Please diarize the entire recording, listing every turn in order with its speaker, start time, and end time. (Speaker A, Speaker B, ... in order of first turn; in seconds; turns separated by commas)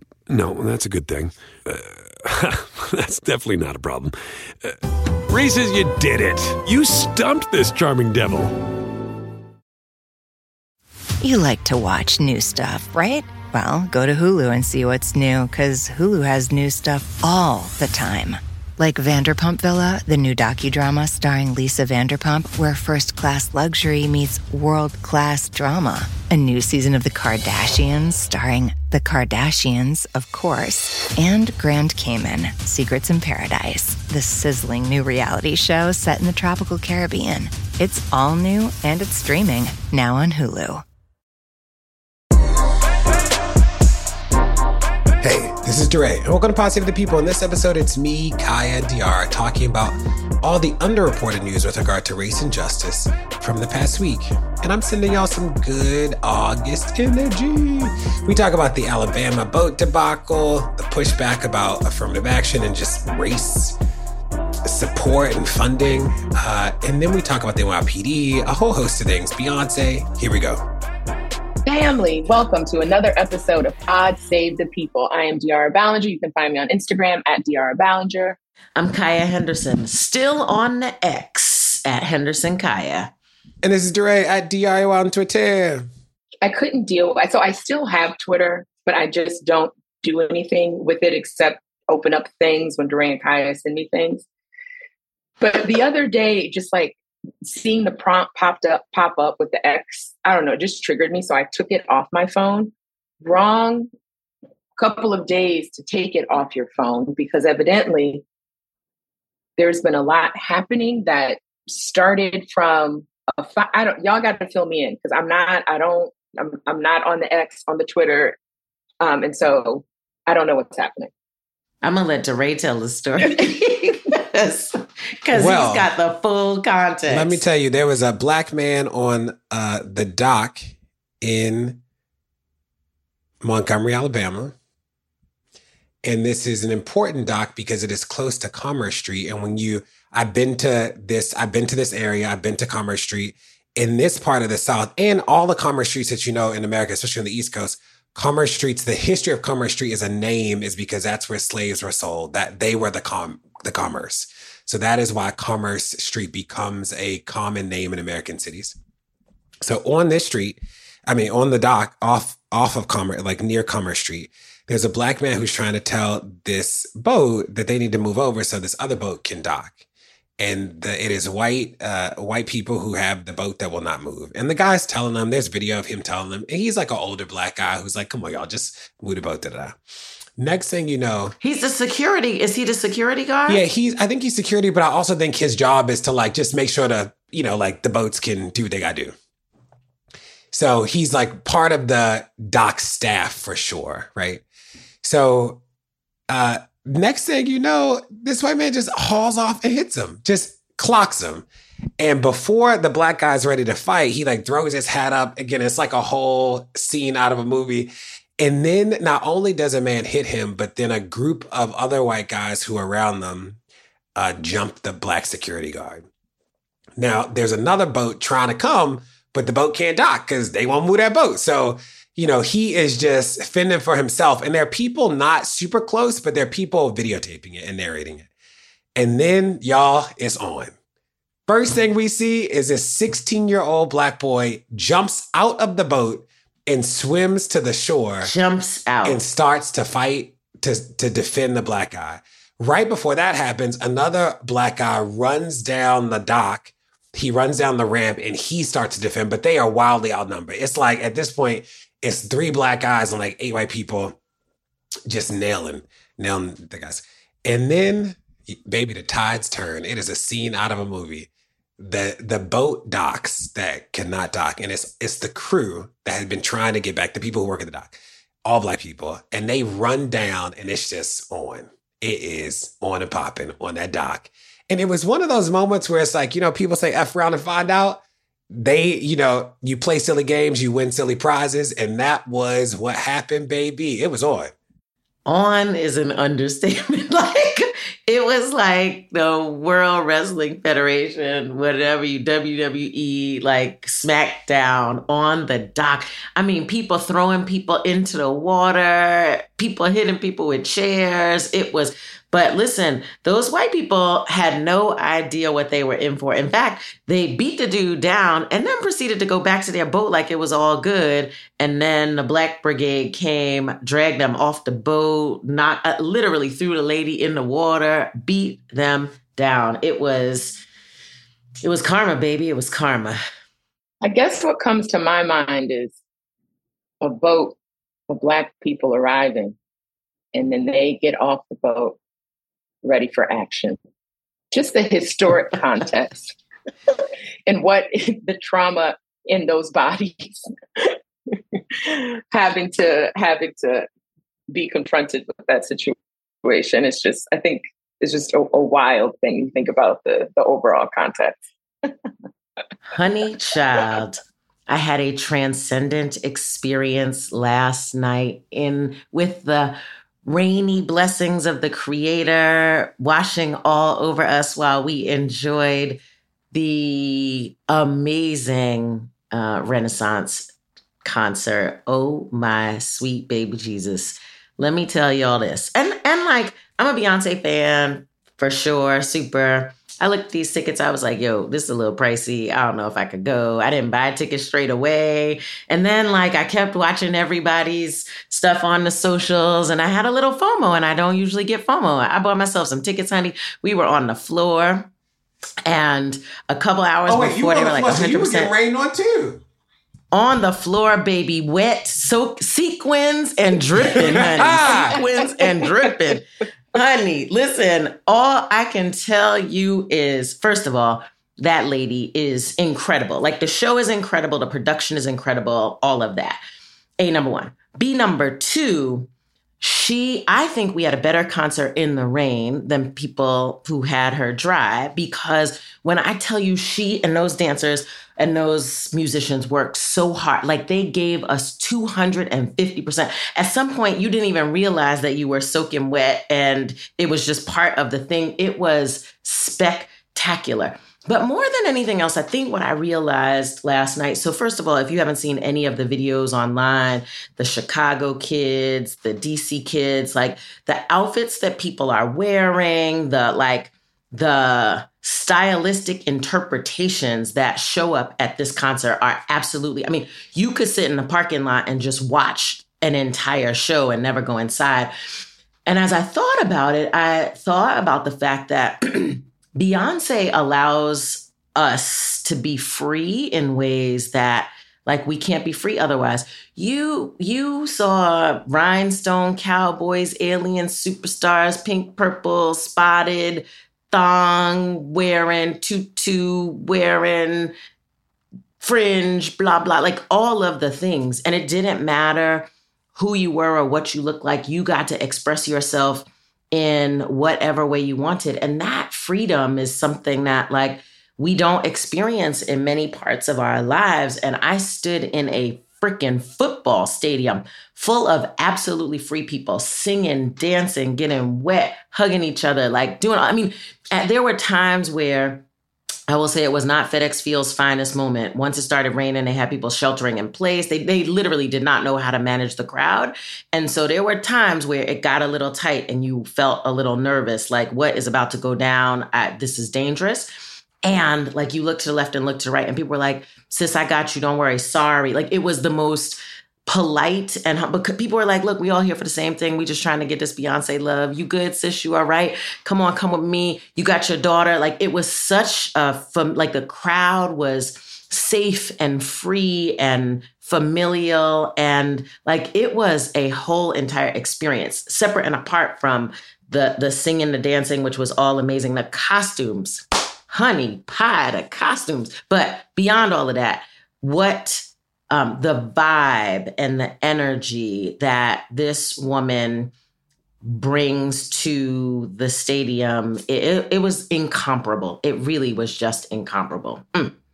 Speaker A: 0.3-8.6, Speaker B: 11.2-40.8, Speaker C: 45.2-63.8, Speaker C: 64.6-70.6, Speaker D: 71.7-78.4, Speaker E: 78.8-83.1, Speaker C: 83.6-85.9, Speaker D: 86.4-94.2, Speaker D: 95.4-103.9, Speaker D: 104.8-108.2, Speaker D: 109.6-118.4, Speaker D: 119.0-121.1, Speaker E: 121.8-127.4, Speaker C: 125.3-125.9, Speaker C: 127.1-131.8, Speaker C: 133.4-134.5, Speaker C: 136.0-158.8, Speaker C: 159.6-169.8, Speaker C: 170.4-179.8, Speaker C: 180.4-181.3, Speaker E: 181.4-183.6, Speaker C: 183.5-189.1, Speaker C: 190.5-194.4, Speaker C: 195.0-195.6, Speaker C: 196.3-201.5, Speaker C: 202.0-213.6, Speaker C: 214.2-216.1, Speaker C: 217.0-228.3, Speaker C: 228.9-230.7, Speaker C: 231.5-238.3, Speaker E: 238.2-239.2, Speaker C: 239.0-254.2, Speaker C: 255.1-284.5, Speaker E: 285.2-320.6, Speaker E: 321.6-323.2, Speaker D: 324.0-326.0, Speaker D: 327.0-327.6, Speaker D: 328.1-329.6, Speaker D: 330.3-332.0, Speaker D: 332.8-333.8, Speaker D: 334.5-336.3, Speaker D: 337.5-340.9, Speaker D: 341.5-343.9, Speaker D: 344.5-351.4, Speaker E: 352.9-366.0, Speaker E: 366.5-370.5, Speaker E: 371.0-394.9, Speaker E: 395.7-398.5, Speaker C: 397.1-399.4, Speaker E: 400.1-416.4, Speaker C: 404.0-405.0, Speaker D: 404.2-404.8, Speaker E: 417.0-419.1, Speaker E: 419.6-464.9, Speaker E: 465.7-487.5, Speaker E: 488.6-515.4, Speaker E: 516.1-530.3, Speaker E: 530.8-569.7, Speaker E: 570.4-577.1